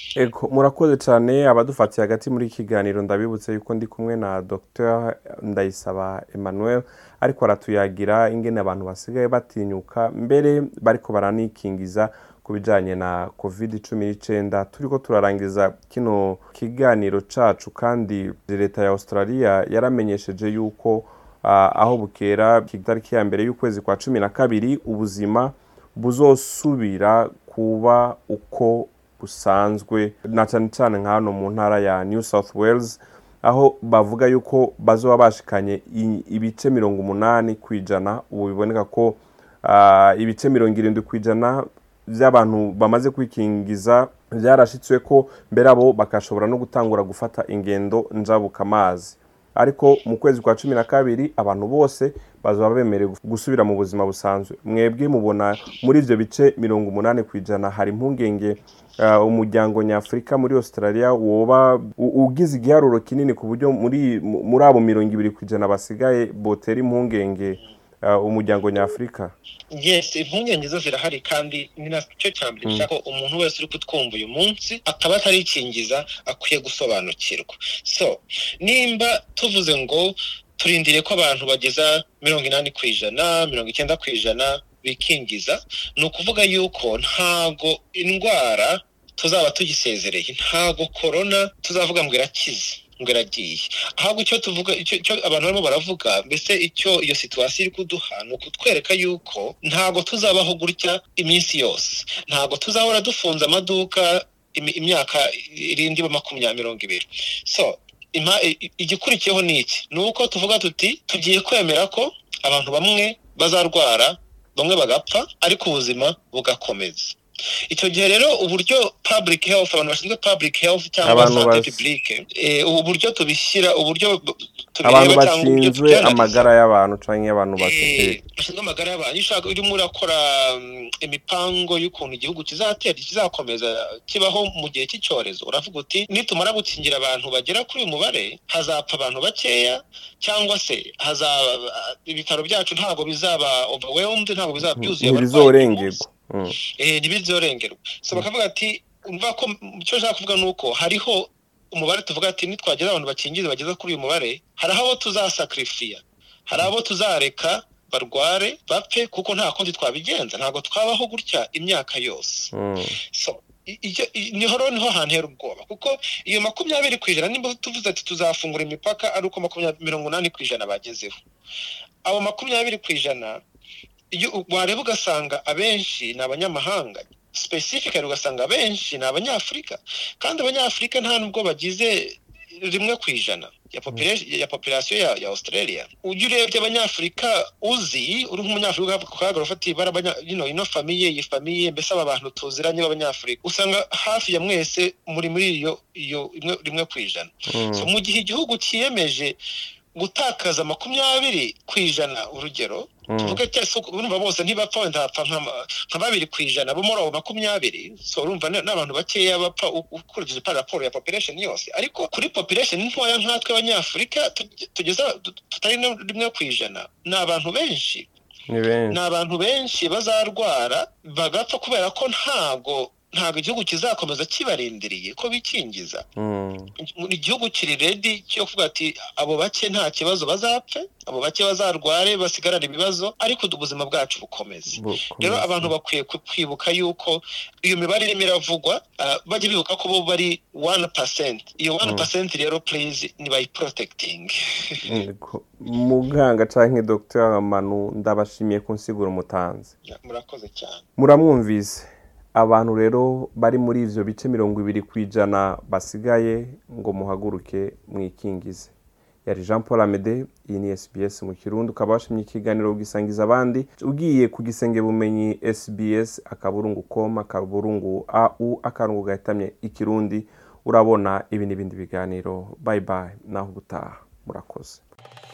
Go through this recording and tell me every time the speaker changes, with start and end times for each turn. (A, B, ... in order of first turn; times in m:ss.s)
0:00.2-1:09.3 A
1:09.7-1:57.2 B
1:12.6-1:12.9 A
1:57.7-2:06.5 B
2:01.0-2:01.8 A
2:04.8-2:08.2 A
2:07.6-2:26.0 B
2:24.7-2:26.6 A
2:26.8-2:42.5 B
2:42.5-2:42.9 A
2:43.1-2:51.1 B
2:52.0-2:53.4 B
2:54.1-3:19.4 B
3:17.5-3:17.9 A
3:20.0-3:38.1 B
3:23.1-3:23.4 A
3:38.5-3:39.0 A
3:38.9-3:46.0 B
3:46.2-3:46.7 A
3:46.8-4:04.9 B
3:54.7-3:55.7 A
4:01.8-4:02.1 A
4:04.8-4:09.7 A
4:09.8-4:10.8 B
4:11.0-4:18.7 A
4:19.2-4:34.8 A